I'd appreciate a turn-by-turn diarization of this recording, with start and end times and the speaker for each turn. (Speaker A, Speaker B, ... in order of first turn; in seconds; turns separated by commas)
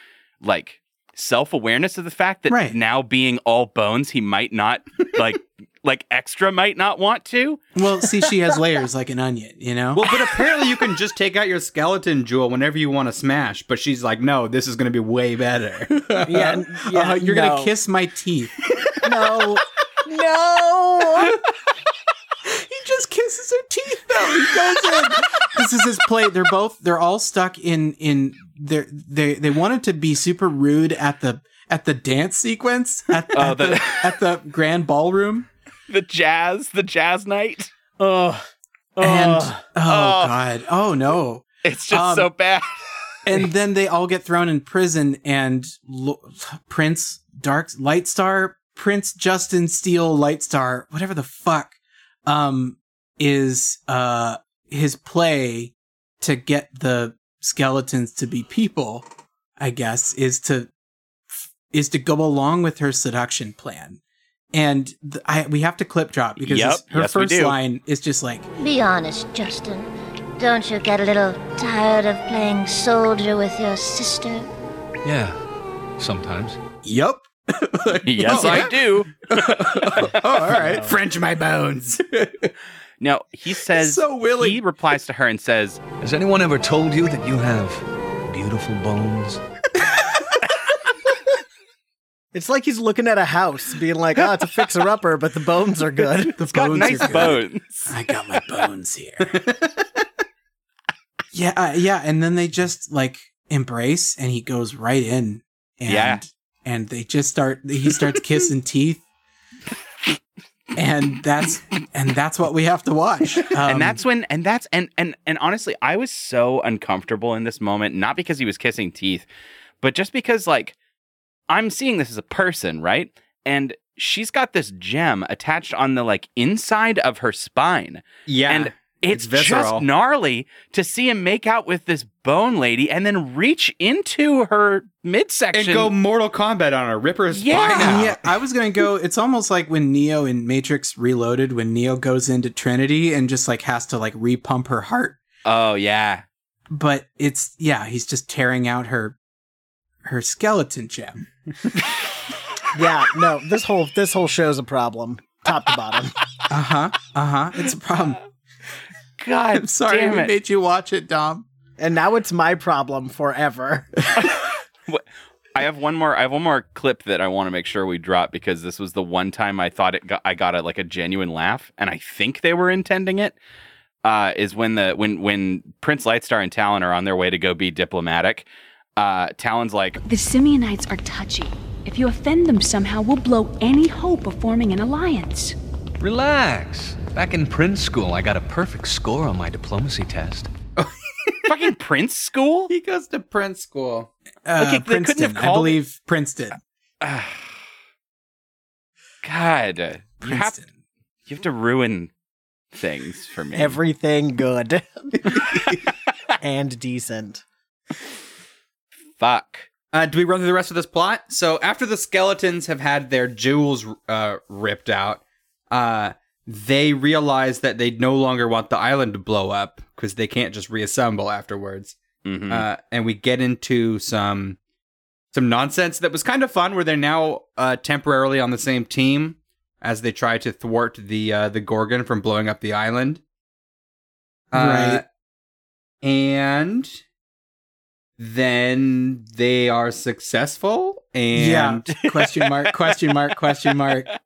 Speaker A: 0.4-7.6, Speaker B: 2.5-2.8, Speaker B: 7.7-10.1, Speaker C: 9.9-15.9, Speaker B: 15.9-18.5, Speaker D: 16.2-17.7, Speaker D: 19.0-21.4, Speaker B: 22.4-35.5, Speaker A: 33.3-34.1, Speaker A: 35.9-37.7, Speaker D: 38.0-39.6, Speaker B: 39.0-42.3, Speaker A: 39.9-40.4, Speaker A: 41.6-42.7, Speaker B: 43.2-59.0, Speaker B: 59.6-60.7, Speaker B: 61.3-64.0, Speaker B: 64.5-68.5, Speaker A: 66.4-67.5, Speaker E: 68.6-69.9, Speaker E: 70.4-74.5, Speaker F: 75.0-75.4, Speaker F: 76.0-76.6, Speaker B: 76.8-82.5, Speaker A: 78.0-79.8, Speaker D: 80.5-80.9, Speaker A: 83.0-85.8, Speaker B: 83.7-84.6, Speaker F: 86.0-89.4, Speaker D: 92.3-96.3, Speaker B: 96.4-99.5, Speaker A: 96.5-97.9, Speaker B: 101.3-109.0, Speaker A: 105.8-106.2, Speaker B: 110.7-114.0, Speaker A: 113.7-119.2, Speaker A: 119.8-120.8, Speaker A: 121.5-135.9, Speaker C: 128.3-129.8, Speaker C: 135.5-138.2, Speaker A: 137.3-138.1, Speaker B: 137.8-145.2, Speaker A: 145.4-146.2, Speaker B: 146.7-149.2, Speaker B: 150.0-151.3, Speaker D: 152.7-156.1, Speaker B: 156.5-158.2, Speaker A: 159.2-160.3, Speaker B: 159.5-161.4, Speaker D: 161.8-163.9, Speaker A: 164.2-165.0, Speaker A: 165.5-173.3, Speaker A: 174.0-180.0, Speaker G: 180.0-185.5, Speaker F: 186.0-190.5, Speaker A: 191.4-192.7, Speaker C: 192.7-194.1, Speaker B: 194.4-196.6, Speaker A: 194.6-195.8, Speaker A: 197.0-197.6, Speaker A: 199.2-200.6, Speaker B: 200.2-200.7, Speaker A: 201.3-202.1, Speaker A: 202.7-203.8, Speaker D: 203.5-205.4, Speaker D: 206.4-207.4, Speaker A: 209.2-209.7, Speaker C: 209.9-222.0, Speaker A: 222.2-222.6, Speaker C: 222.5-224.6, Speaker C: 225.3-233.2, Speaker C: 234.5-235.0, Speaker B: 234.5-235.0, Speaker C: 236.0-237.0, Speaker C: 238.2-241.9, Speaker B: 241.3-244.1